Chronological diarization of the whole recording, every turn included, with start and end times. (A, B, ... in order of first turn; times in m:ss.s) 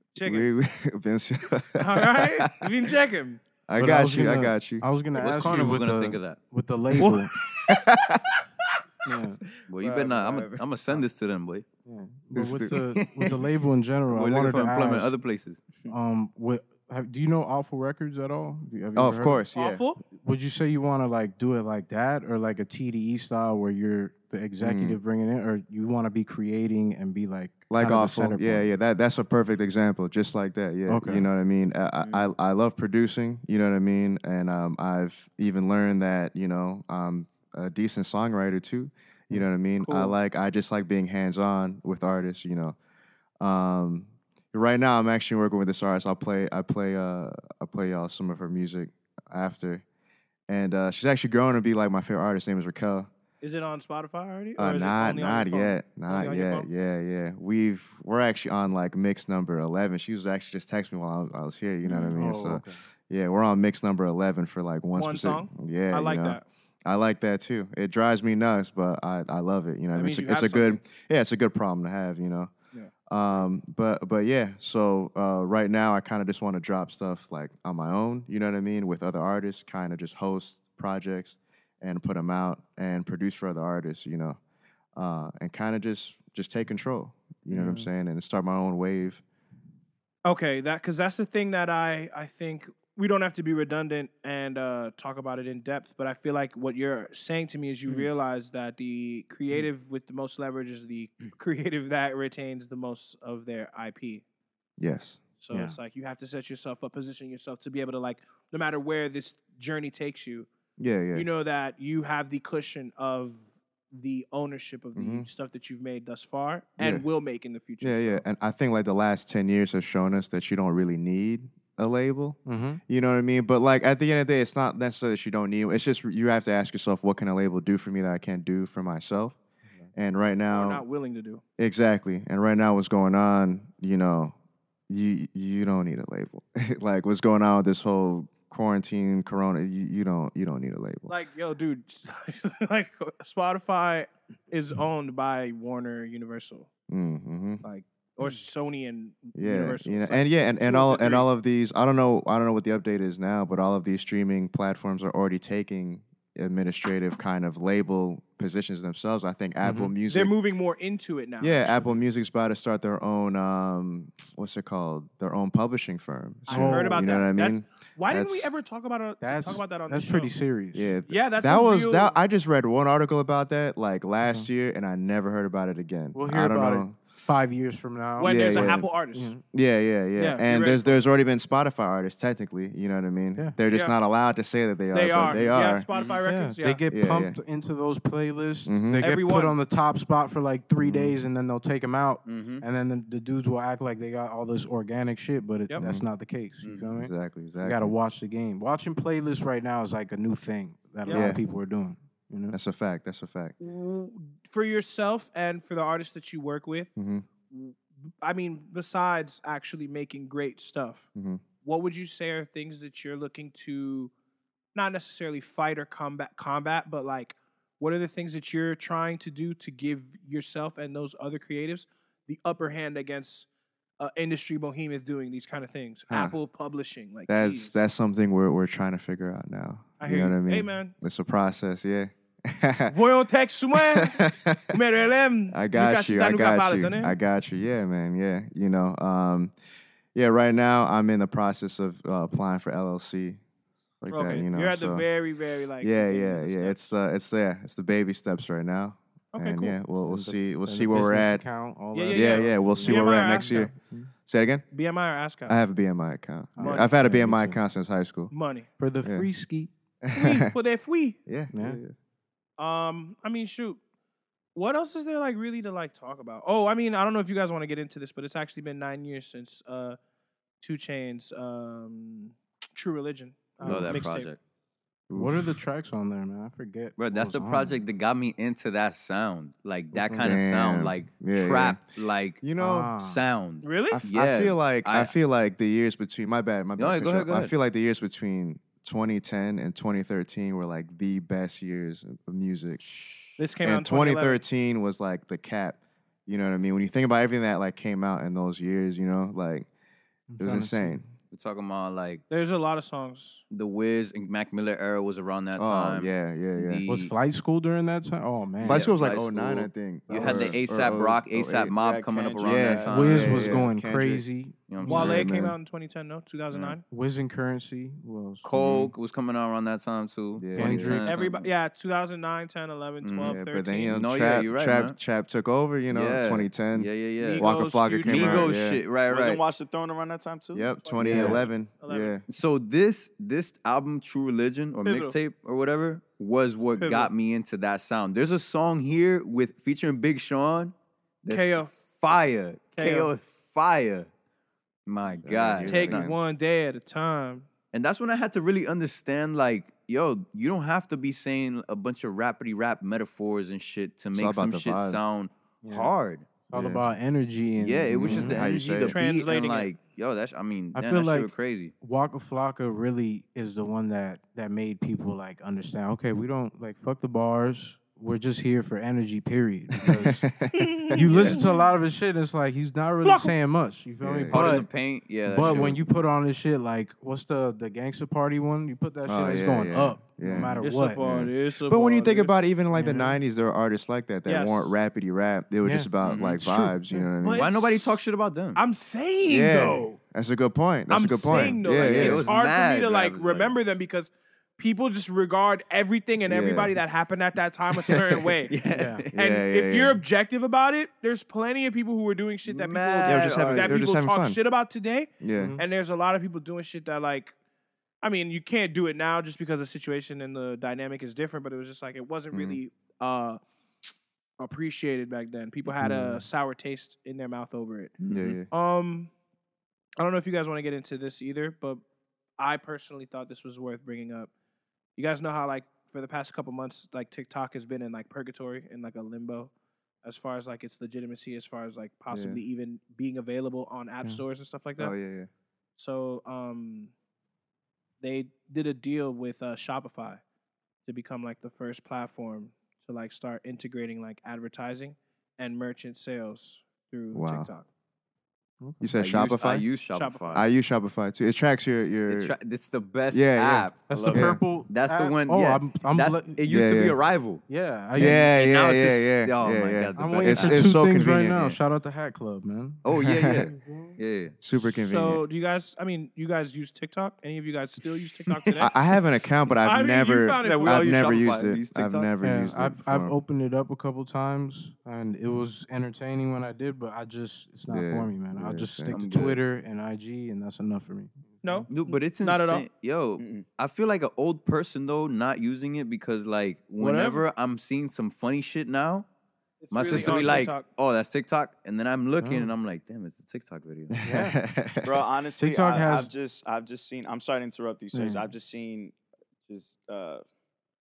0:00.1-0:00.5 A
0:00.2-0:02.5 B
0:01.8-0:03.4 A
0:03.7-0:04.9 B
0:03.8-0:07.3 C
0:05.1-0:06.4 D
0:07.7-0:08.2 B
0:09.1-0:09.4 C
0:09.7-0:11.6 D
0:09.8-0:10.6 B
0:11.8-0:15.1 C
0:12.3-0:12.8 B
0:13.0-0:13.4 D
0:14.1-0:15.6 D
0:15.9-0:19.5 C
0:19.0-0:19.8 B
0:19.5-0:20.0 A
0:20.1-0:28.7 C
0:24.6-0:25.0 B
0:27.7-0:42.8 B
0:30.9-0:31.3 C
0:32.0-0:32.3 E
0:39.8-0:40.2 A
0:43.4-0:49.8 B
0:50.5-0:53.1 B
0:53.4-0:56.7 A
0:54.6-1:12.5 B
1:01.9-1:02.2 A
1:02.2-1:02.8 C
1:05.0-1:06.4 A
1:09.9-1:10.8 A
1:13.1-1:24.4 B
1:25.0-1:29.2 B
1:30.2-1:44.2 A
1:44.8-1:45.2 B
1:45.4-1:50.5 A
1:45.5-1:45.8 C
1:50.8-1:51.3 B
1:51.1-1:58.2 A
1:55.0-1:55.3 B
1:56.8-1:57.0 B
1:57.8-2:09.4 B
2:02.5-2:02.8 C
2:09.9-2:10.8 B
2:10.5-2:11.4 A
2:11.6-2:14.3 B
2:14.9-2:21.1 B
2:21.1-2:26.7 A
2:26.9-2:27.6 B
2:27.6-2:31.3 A
2:29.4-2:40.4 B
2:39.6-2:39.9 C
2:40.1-2:42.0 A
2:41.4-2:48.5 B
2:46.5-2:47.1 C
2:46.5-2:50.3 A
2:49.2-2:50.9 C
2:50.7-2:57.0 B
2:51.1-2:52.1 A
2:54.2-2:54.5 C
2:56.1-2:59.4 C
2:58.2-2:59.4 A
2:58.2-2:58.9 B
2:59.5-3:05.9 B
3:00.2-3:01.0 A
3:03.7-3:04.0 A
3:04.9-3:06.8 A
3:06.2-3:22.6 C
3:06.9-3:07.4 B
3:08.7-3:09.0 B
3:09.0-3:09.6 A
3:10.8-3:11.2 B
3:12.2-3:12.6 D
3:15.8-3:16.1 B
3:16.6-3:17.0 D
3:17.0-3:18.0 B
3:21.0-3:21.3 A
3:21.1-3:21.4 B
3:22.5-3:23.6 B
3:23.6-3:26.9 A
3:27.0-3:27.3 B
3:27.5-3:31.1 A
3:31.2-3:31.4 B
3:31.6-3:34.1 A
3:34.8-3:43.5 A
3:44.0-3:47.8 A
3:46.1-3:46.4 B
3:47.3-3:53.0 B
3:50.0-3:50.9 A
3:52.9-3:57.2 A
3:53.7-3:54.6 B
3:55.5-3:59.5 B
4:00.2-4:03.4 B
4:04.0-4:05.1 B
4:04.1-4:07.0 A
4:05.8-4:11.4 B
4:09.3-4:09.8 A
4:10.1-4:14.1 C
4:11.9-4:13.7 A
4:12.1-4:14.6 B
4:14.7-4:15.6 A
4:15.5-4:18.3 B
4:16.6-4:17.6 C
4:16.6-4:16.9 A
4:18.3-4:18.7 A
4:18.8-4:19.7 C
4:19.0-4:19.3 B
4:20.0-4:20.5 B
4:20.1-4:21.2 A
4:21.3-4:21.9 B
4:21.5-4:21.8 C
4:22.6-4:23.8 A
4:24.6-4:30.0 A
4:30.6-4:34.3 A
4:33.6-4:34.0 B
4:33.6-4:34.4 D
4:35.1-4:35.6 B
4:35.1-4:37.8 C
4:37.0-4:42.5 D
4:40.0-4:40.4 C
4:40.2-4:41.8 B
4:42.4-4:42.9 B
4:42.6-4:43.2 C
4:43.0-4:45.1 D
4:43.6-4:44.0 A
4:43.9-4:52.9 B
4:46.8-4:47.5 D
4:53.4-4:54.4 A
4:53.6-4:59.7 B
5:00.3-5:01.0 C
5:00.4-5:01.1 B
5:01.3-5:02.2 D
5:02.3-5:03.4 A
5:03.5-5:07.1 D
5:05.6-5:06.9 B
5:06.9-5:08.9 C
5:08.6-5:13.6 D
5:08.6-5:11.7 B
5:10.1-5:10.6 C
5:11.7-5:13.1 E
5:12.4-5:14.2 B
5:12.8-5:15.2 C
5:14.7-5:15.2 D
5:14.9-5:16.8 A
5:14.9-5:15.6 B
5:16.9-5:18.5 C
5:18.4-5:21.5 D
5:18.6-5:18.9 B
5:20.4-5:21.0 B
5:20.6-5:21.1 C
5:21.1-5:24.0 A
5:23.0-5:23.4 D
5:23.2-5:28.8 B
5:23.9-5:25.0 D
5:25.9-5:27.5 D
5:27.2-5:28.5 A
5:28.0-5:29.4 D
5:29.1-5:30.8 E
5:30.5-5:32.2 B
5:30.8-5:32.2 A
5:31.0-5:31.5 C
5:31.1-5:31.4 D
5:32.3-5:44.1 D
5:34.9-5:35.2 A
5:36.8-5:37.1 A
5:41.3-5:41.7 A
5:42.8-5:43.1 A
5:44.9-5:46.1 D
5:45.2-5:46.2 B
5:45.7-5:47.5 A
5:47.7-5:56.3 D
5:54.1-5:55.0 B
5:55.6-5:55.9 C
5:56.5-5:58.4 C
5:56.5-5:56.9 B
5:57.6-6:01.7 D
5:57.9-5:59.0 B
5:58.9-5:59.7 A
6:00.8-6:10.2 C
6:09.9-6:10.8 B
6:10.6-6:11.4 A
6:10.9-6:14.7 C
6:11.0-6:11.4 D
6:13.0-6:13.4 A
6:14.0-6:14.5 B
6:14.3-6:15.8 D
6:15.2-6:21.3 C
6:15.4-6:15.8 B
6:19.1-6:27.5 B
6:20.6-6:22.4 A
6:22.7-6:23.2 C
6:24.3-6:24.8 A
6:25.6-6:25.9 C
6:26.1-6:26.4 E
6:26.4-6:27.0 C
6:27.2-6:28.0 A
6:27.4-6:28.6 D
6:28.6-6:30.0 A
6:29.3-6:32.3 B
6:30.9-6:38.5 A
6:31.6-6:33.6 D
6:36.3-6:36.8 B
6:38.5-6:39.1 D
6:38.7-6:39.0 C
6:39.1-6:40.0 B
6:39.1-6:47.3 A
6:42.5-6:43.8 D
6:43.0-6:44.4 B
6:45.2-6:45.6 B
6:45.4-6:45.6 C
6:48.0-6:53.4 A
6:52.3-6:52.6 B
6:54.4-6:58.0 A
6:55.8-6:56.2 C
6:58.0-6:58.3 E
6:58.1-6:58.5 B
6:58.5-6:59.1 A
7:00.0-7:01.8 A
7:02.4-7:04.3 A
7:05.0-7:09.5 A
7:10.0-7:14.9 A
7:12.1-7:12.4 B
7:14.8-7:15.3 B
7:15.8-7:16.9 A
7:18.0-7:20.2 A
7:20.9-7:27.7 A
7:27.1-7:27.5 B
7:28.6-7:28.9 C
7:28.8-7:29.6 B
7:29.0-7:30.4 D
7:29.9-7:30.5 A
7:30.3-7:32.4 B
7:32.1-7:40.7 D
7:33.1-7:34.4 B
7:33.9-7:36.4 C
7:33.9-7:34.3 E
7:36.5-7:37.0 B
7:37.5-7:38.3 C
7:38.0-7:41.6 B
7:40.0-7:42.8 C
7:42.8-7:44.4 D
7:43.0-7:43.5 B
7:43.5-7:44.0 C
7:44.4-7:45.2 B
7:44.5-7:48.7 A
7:48.3-7:48.6 D
7:48.6-7:53.2 B
7:49.6-7:50.9 A
7:50.4-7:52.1 D
7:52.2-8:01.7 C
7:57.7-7:59.0 B
7:58.9-7:59.4 D
8:01.4-8:02.6 A
8:01.7-8:09.1 D
8:03.2-8:03.4 E
8:06.8-8:07.2 A
8:09.6-8:10.6 A
8:09.7-8:14.0 D
8:09.9-8:10.2 E
8:12.2-8:12.5 C
8:14.0-8:14.4 C
8:14.0-8:15.0 B
8:14.8-8:19.0 E
8:15.4-8:16.1 C
8:17.9-8:18.3 C
8:19.5-8:20.2 E